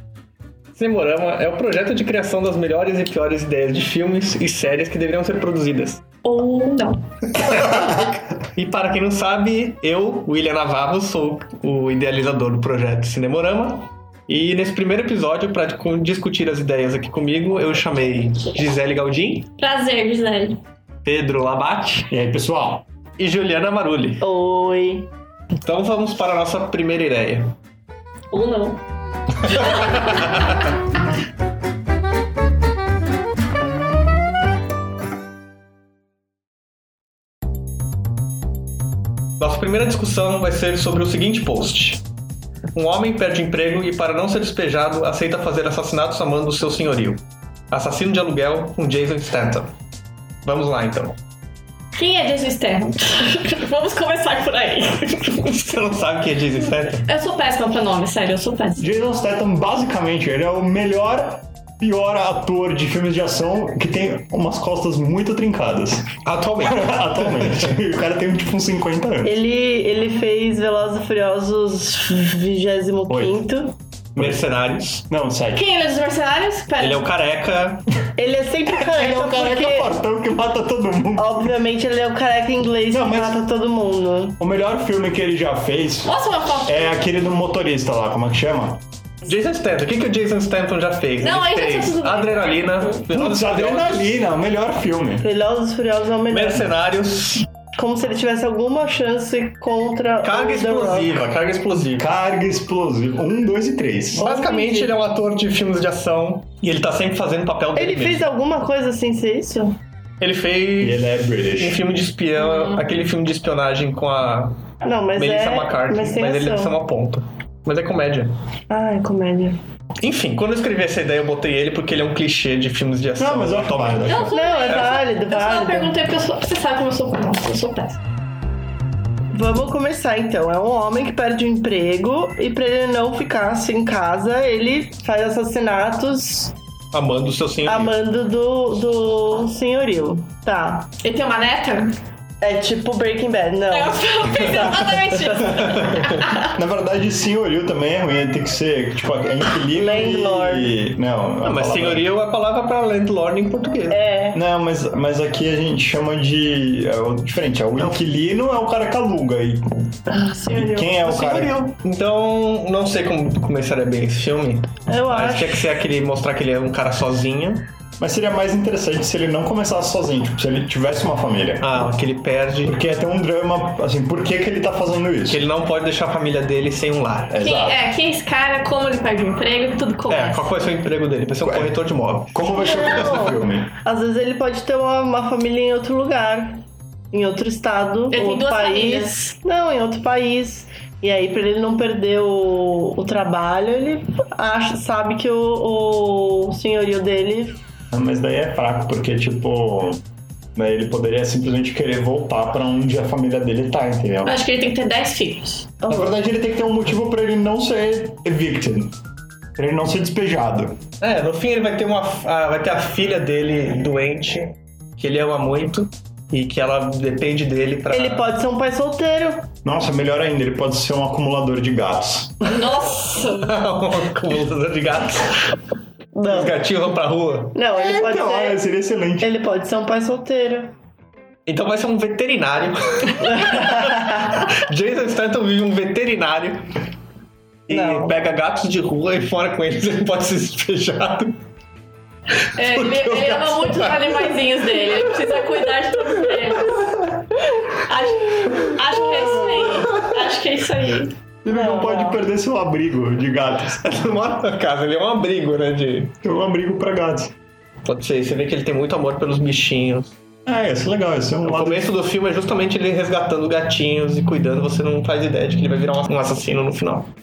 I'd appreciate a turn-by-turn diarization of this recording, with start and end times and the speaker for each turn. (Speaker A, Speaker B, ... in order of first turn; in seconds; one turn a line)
Speaker A: 0.8-6.0
Speaker B: 6.2-7.0
Speaker A: 7.4-19.5
Speaker B: 19.6-20.6
Speaker A: 21.0-22.1
Speaker C: 22.1-22.8
Speaker A: 23.2-24.2
Speaker D: 24.2-25.1
Speaker A: 25.6-27.5
Speaker B: 28.3-28.8
Speaker A: 29.5-30.4
Speaker B: 29.5-30.4
Speaker A: 39.4-42.0
Speaker A: 42.7-49.7
Speaker A: 50.4-51.2
Speaker B: 51.9-55.6
Speaker A: 55.3-57.1
Speaker B: 57.0-58.9
Speaker C: 58.8-69.4
Speaker A: 66.2-67.7
Speaker D: 69.2-73.7
Speaker C: 73.1-73.4
Speaker C: 74.1-74.4
Speaker A: 74.1-75.0
Speaker C: 75.1-75.6
Speaker B: 75.5-77.0
Speaker A: 76.8-77.8
Speaker D: 78.2-80.0
Speaker C: 78.8-81.5
Speaker D: 81.2-84.4
Speaker C: 82.9-83.4
Speaker C: 84.4-88.8
Speaker B: 86.0-86.9
Speaker A: 89.2-94.1
Speaker B: 91.2-93.0
Speaker C: 93.1-95.2
Speaker D: 95.2-96.7
Speaker A: 96.3-97.5
Speaker D: 97.7-101.2
Speaker A: 100.2-102.1
Speaker C: 102.0-104.2
Speaker D: 104.2-104.9
Speaker A: 104.2-108.3
Speaker D: 107.8-109.8
Speaker A: 110.2-114.6
Speaker C: 110.8-111.8
Speaker B: 112.4-112.8
Speaker D: 114.8-116.7
Speaker A: 115.1-118.3
Speaker D: 118.7-119.6
Speaker A: 120.0-125.0
Speaker C: 123.2-124.3
Speaker B: 124.0-128.0
Speaker D: 124.3-126.0
Speaker D: 129.3-136.5
Speaker A: 136.9-137.9
Speaker D: 137.6-140.9
Speaker B: 141.0-142.0
Speaker D: 142.4-145.9
Speaker B: 143.7-146.5
Speaker A: 144.4-144.8
Speaker A: 145.4-146.3
Speaker C: 146.5-152.1
Speaker D: 149.7-150.7
Speaker A: 151.4-154.0
Speaker D: 153.9-154.4
Speaker C: 154.3-159.7
Speaker D: 160.1-160.9
Speaker C: 160.5-161.6
Speaker A: 161.0-167.7
Speaker D: 164.9-165.6
Speaker C: 168.0-171.7
Speaker A: 171.6-172.8
Speaker C: 172.6-175.4
Speaker A: 175.3-177.3
Speaker C: 177.3-177.8
Speaker B: 177.4-180.4
Speaker A: 180.1-182.5
Speaker C: 181.4-181.7
Speaker C: 182.3-183.7
Speaker D: 182.5-186.6
Speaker D: 187.1-197.6
Speaker B: 188.1-189.3
Speaker C: 197.9-200.0
Speaker C: 200.5-204.3
Speaker B: 204.2-205.7
Speaker C: 205.9-208.9
Speaker C: 209.6-210.8
Speaker A: 211.0-218.3
Speaker D: 217.9-219.5
Speaker C: 219.6-222.6
Speaker B: 222.4-223.5
Speaker A: 223.3-225.6
Speaker D: 226.1-226.5
Speaker A: 226.2-227.6
Speaker D: 227.5-228.6
Speaker C: 227.8-229.3
Speaker D: 229.2-230.7
Speaker A: 231.5-236.8
Speaker D: 233.2-234.4
Speaker A: 237.7-241.3
Speaker D: 237.7-238.1
Speaker A: 242.4-245.4
Speaker B: 242.6-247.1
Speaker B: 247.7-251.1
Speaker C: 251.4-253.9
Speaker D: 251.5-252.2
Speaker A: 253.8-256.1
Speaker C: 256.2-257.3
Speaker A: 257.9-260.1
Speaker C: 260.4-261.9
Speaker A: 261.4-267.1